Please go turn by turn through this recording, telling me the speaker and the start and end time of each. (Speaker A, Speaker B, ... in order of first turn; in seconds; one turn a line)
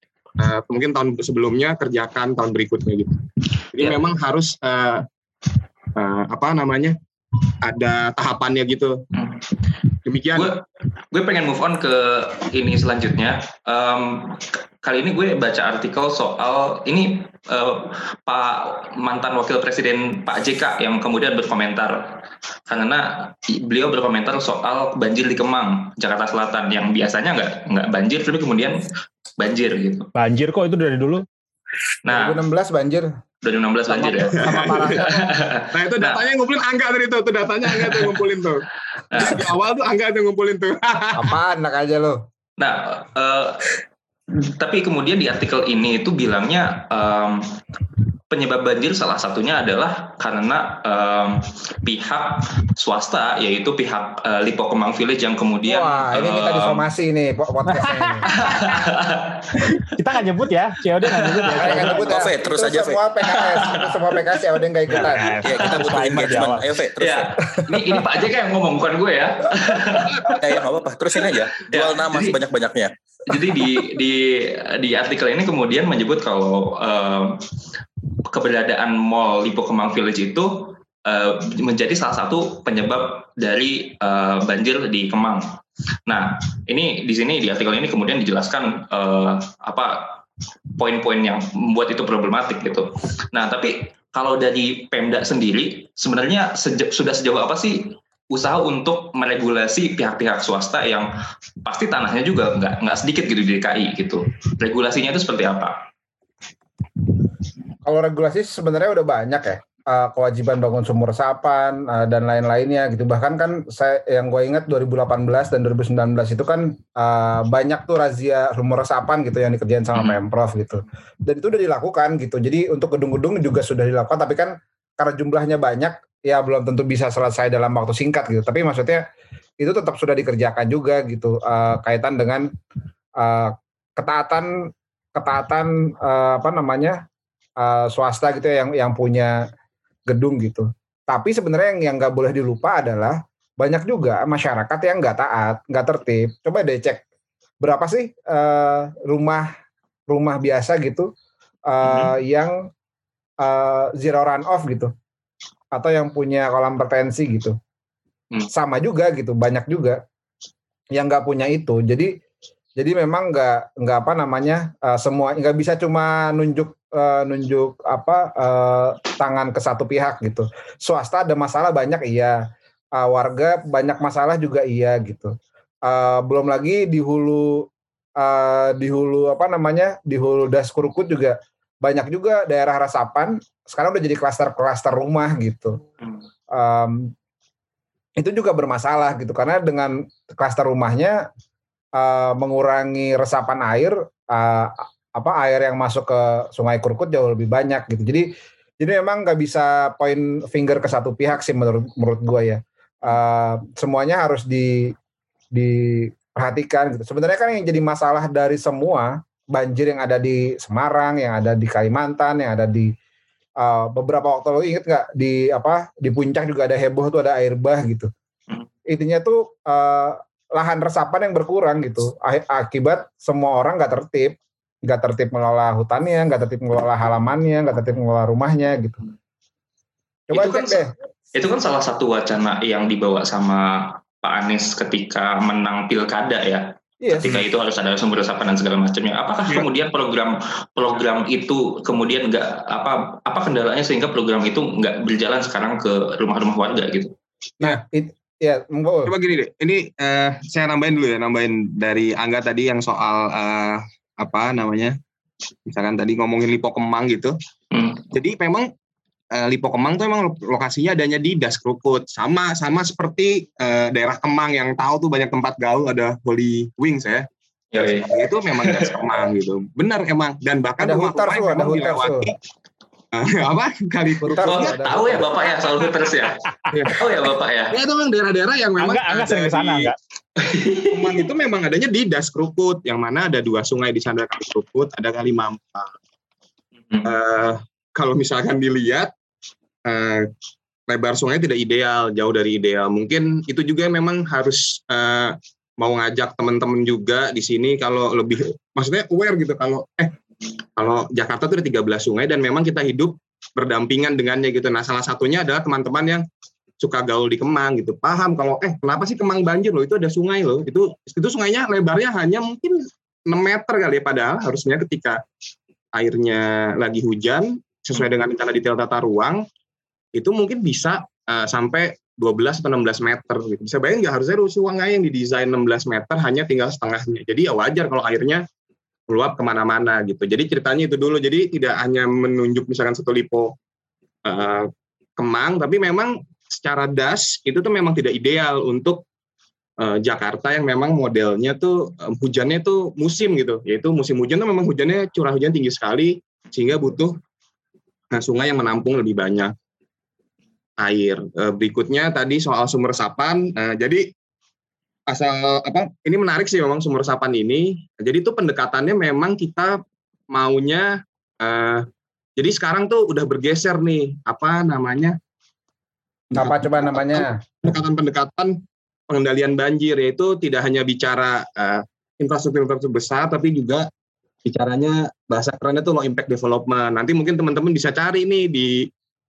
Speaker A: 0.4-5.0
Speaker A: 5.9-7.0
Speaker A: 7.6-9.0
Speaker B: 9.2-9.4
Speaker A: 10.0-10.5
Speaker B: 10.3-28.8
Speaker B: 29.4-30.1
Speaker C: 30.1-31.2
Speaker B: 32.0-32.4
Speaker D: 32.1-33.1
Speaker B: 33.4-36.2
Speaker D: 33.9-35.1
Speaker A: 34.4-35.0
Speaker A: 35.7-41.4
Speaker B: 37.9-38.2
Speaker B: 39.1-39.5
Speaker D: 41.1-42.2
Speaker B: 42.6-43.6
Speaker B: 44.4-47.4
Speaker B: 48.3-56.9
Speaker D: 55.6-58.3
Speaker C: 57.7-58.2
Speaker B: 58.4-59.7
Speaker C: 59.9-62.2
Speaker B: 61.1-61.8
Speaker D: 61.5-65.5
Speaker E: 61.9-63.0
Speaker B: 63.3-63.9
Speaker C: 64.9-66.7
Speaker E: 65.4-67.4
Speaker B: 67.0-70.4
Speaker D: 67.6-68.0
Speaker E: 70.3-72.9
Speaker B: 71.7-72.3
Speaker B: 73.3-77.3
Speaker B: 78.3-85.5
Speaker B: 86.1-90.2
Speaker B: 90.8-101.1
Speaker B: 101.6-105.9
Speaker D: 107.8-129.0
Speaker B: 119.9-120.2
Speaker D: 129.6-132.5
Speaker D: 133.2-134.5
Speaker D: 135.1-137.0
Speaker D: 137.6-139.3
Speaker D: 140.1-147.0
Speaker D: 147.6-149.5
Speaker D: 150.1-151.1
Speaker D: 151.7-152.6
Speaker B: 151.8-152.1
Speaker D: 153.4-154.9
Speaker D: 155.7-157.6
Speaker D: 158.5-160.0
Speaker D: 160.9-162.1
Speaker D: 162.8-172.3
Speaker D: 173.0-175.3
Speaker D: 175.8-177.7
Speaker D: 178.2-185.8
Speaker D: 186.5-187.1
Speaker D: 188.2-191.2
Speaker D: 192.0-204.9
Speaker D: 205.5-212.9
Speaker D: 213.6-218.1
Speaker D: 218.9-229.0
Speaker D: 230.3-230.9
Speaker B: 230.3-230.8
Speaker B: 231.3-247.1
Speaker D: 237.0-237.4
Speaker D: 247.6-249.1
Speaker A: 249.1-255.0
Speaker A: 255.7-257.4
Speaker B: 257.7-258.1
Speaker A: 258.1-258.7
Speaker A: 259.3-272.4
Speaker B: 267.7-268.1
Speaker D: 270.8-272.3
Speaker A: 273.1-274.8
Speaker D: 274.2-275.4
Speaker B: 274.3-277.8
Speaker A: 276.7-277.0
Speaker A: 277.7-279.9
Speaker C: 278.8-279.9
Speaker B: 280.4-280.9
Speaker A: 280.9-285.9
Speaker A: 287.0-289.1
Speaker A: 289.9-290.3
Speaker A: 290.9-300.1
Speaker A: 300.8-306.2
Speaker A: 306.8-315.2
Speaker A: 315.9-319.4
Speaker A: 320.1-328.4
Speaker A: 329.1-333.5
Speaker A: 334.2-339.0
Speaker A: 339.8-347.2
Speaker A: 348.1-349.5
Speaker A: 350.8-354.1
Speaker A: 355.1-359.8
Speaker A: 360.3-361.9
Speaker A: 362.4-365.2
Speaker A: 366.3-368.6
Speaker D: 366.3-367.4
Speaker A: 369.1-373.9
Speaker A: 374.4-378.9